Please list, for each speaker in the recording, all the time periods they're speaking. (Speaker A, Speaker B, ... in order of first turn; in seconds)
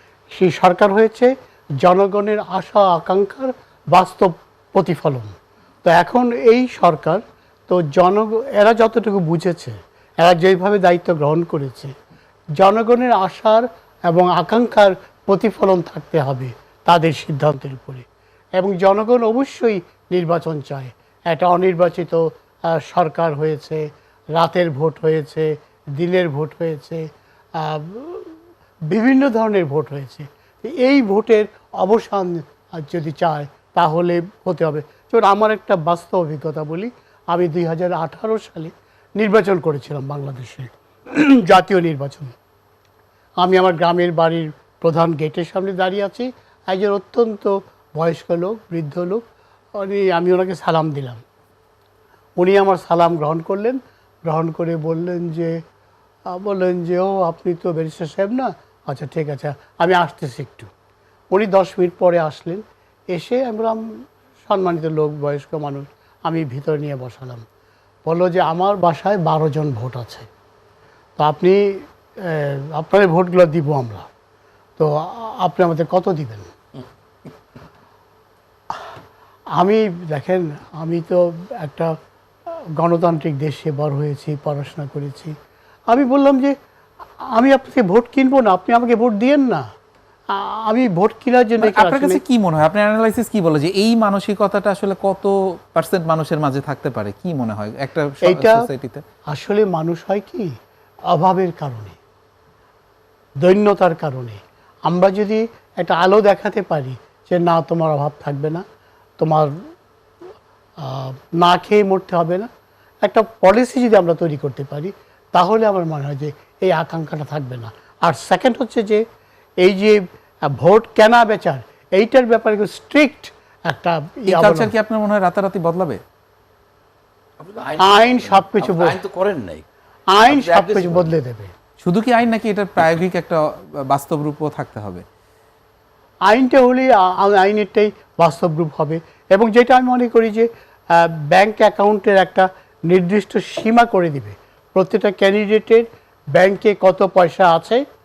Speaker A: 0.3-5.3, 5.8-11.9, 12.6-18.1, 18.6-28.3, 28.9-42.4, 43.4-49.2, 49.8-51.2, 52.4-55.6, 56.3-60.7, 61.3-63.8, 64.4-67.5, 68.1-70.3, 71.2-74.1, 74.8-76.5, 79.6-82.0, 82.8-85.3, 85.9-86.5, 87.3-89.7, 90.3-92.2, 98.2-98.7, 99.3-100.5, 101.1-102.0, 103.4-108.6, 109.2-109.5, 110.8-112.5, 113.0-119.0, 119.6-124.7, 127.8-129.0, 130.1-131.5, 136.3-147.8
Speaker B: 91.6-99.0, 124.3-126.0, 131.8-135.0
Speaker C: 127.4-129.6, 130.3-131.1